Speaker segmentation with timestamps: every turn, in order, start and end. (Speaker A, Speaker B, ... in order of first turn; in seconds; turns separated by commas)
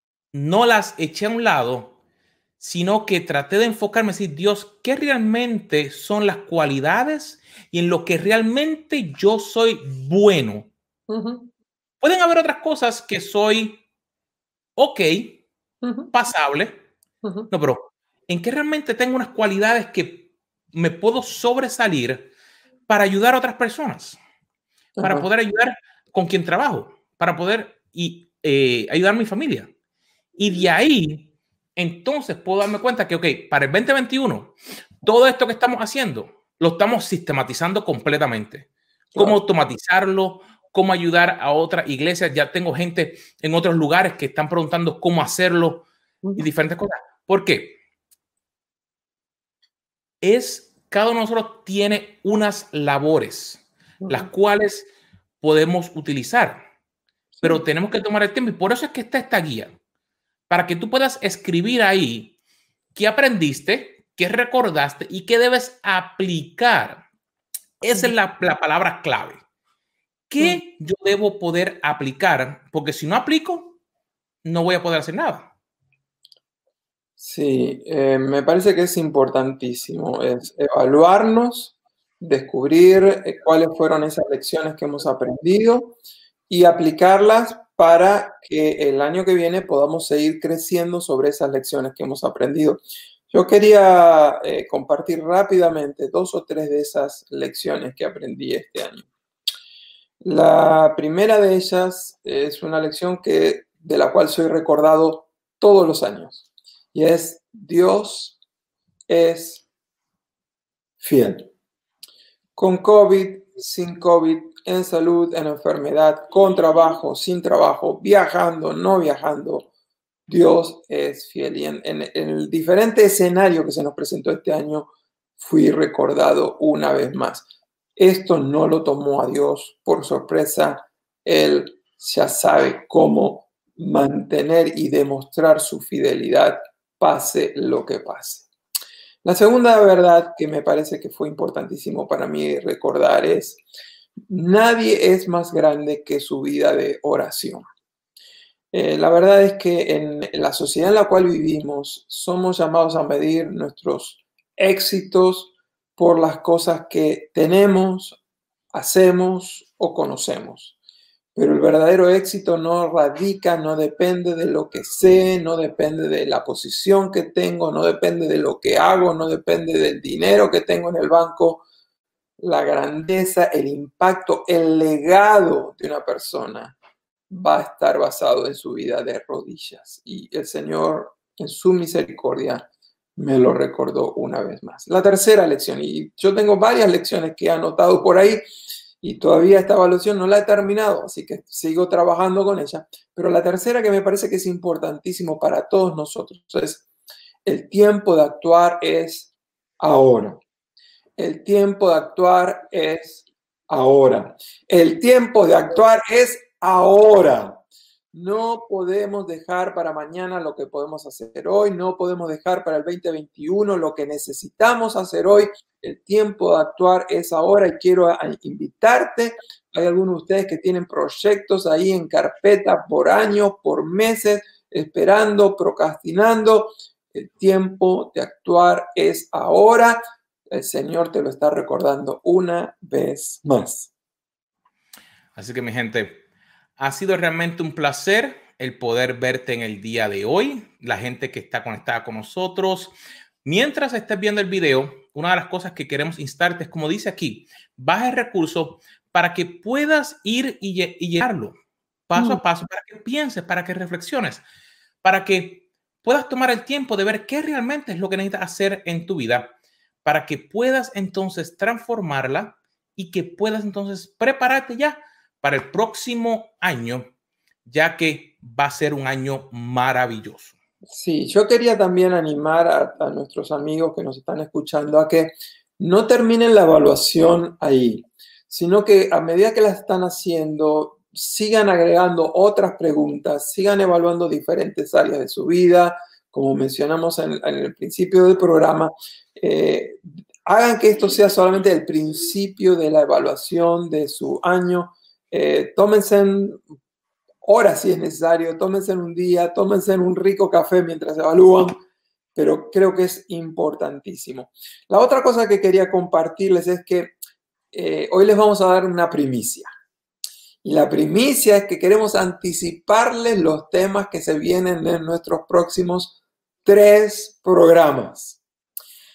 Speaker A: 0.3-1.9, Speaker A: 2.6-10.7, Speaker B: 11.1-11.5, Speaker A: 12.0-13.8, Speaker A: 14.8-15.4, Speaker B: 15.8-16.1, Speaker A: 16.1-16.8, Speaker B: 17.2-17.5, Speaker A: 17.5-22.3, Speaker A: 22.9-24.2, Speaker B: 24.9-25.3, Speaker A: 25.0-29.7, Speaker A: 30.4-45.9, Speaker A: 46.4-47.8, Speaker A: 50.2-54.9, Speaker B: 54.0-54.3, Speaker A: 55.4-56.6, Speaker A: 57.4-59.7, Speaker A: 60.5-62.3, Speaker A: 63.0-67.0, Speaker A: 67.8-69.4, Speaker A: 70.3-73.8, Speaker A: 74.4-75.5, Speaker B: 77.2-86.0, Speaker B: 86.5-99.1, Speaker B: 100.2-108.4, Speaker B: 109.1-109.6, Speaker B: 111.0-111.5, Speaker B: 112.5-119.7, Speaker B: 120.3-138.5, Speaker B: 139.2-143.6, Speaker B: 144.3-147.6, Speaker B: 148.7-158.2, Speaker B: 158.7-160.8, Speaker B: 161.3-171.6, Speaker B: 172.4-176.8, Speaker B: 177.3-188.4, Speaker B: 189.0-196.9, Speaker B: 197.4-200.4, Speaker B: 201.2-233.9, Speaker A: 235.4-236.2, Speaker A: 236.8-251.6, Speaker A: 252.1-254.4, Speaker B: 252.1-252.4, Speaker A: 255.0-259.5, Speaker A: 260.0-267.1, Speaker A: 267.7-270.6, Speaker B: 270.9-296.6, Speaker B: 297.4-301.8, Speaker B: 302.4-307.1, Speaker B: 307.7-309.7, Speaker B: 310.6-318.4